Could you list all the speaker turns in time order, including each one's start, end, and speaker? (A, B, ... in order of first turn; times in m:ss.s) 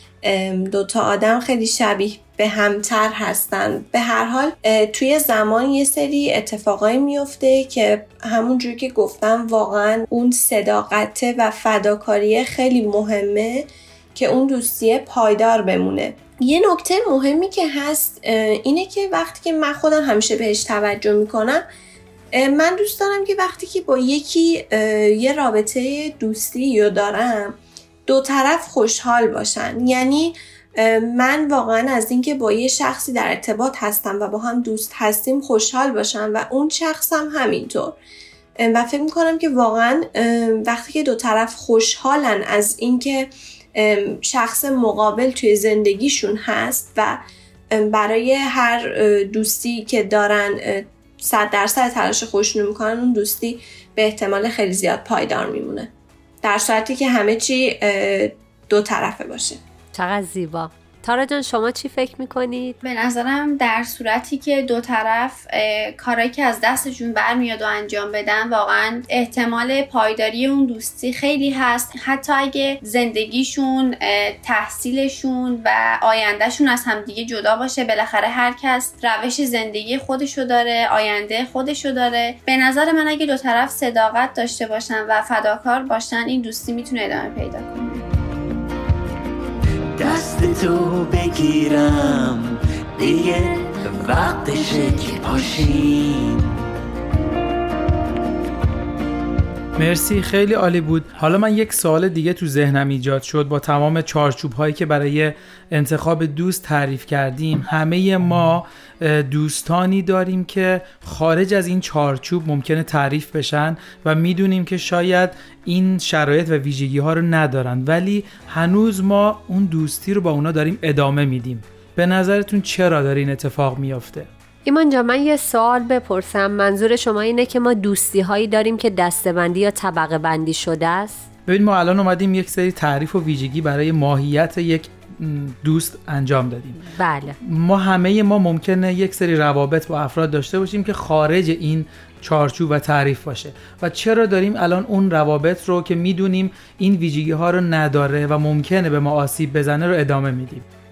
0:00.2-0:21.6 A
0:22.3-0:38.0 A
0:38.6-0:47.2 A
0:47.7-0:55.9 A
0:56.4-0:59.6 A
0:59.9-1:02.8 B
1:02.8-1:28.0 C
1:30.0-1:36.5 D
1:39.8-2:04.3 E
2:04.6-2:11.3 B
2:11.5-2:16.8 E
2:17.0-2:17.4 B
2:17.4-2:30.6 E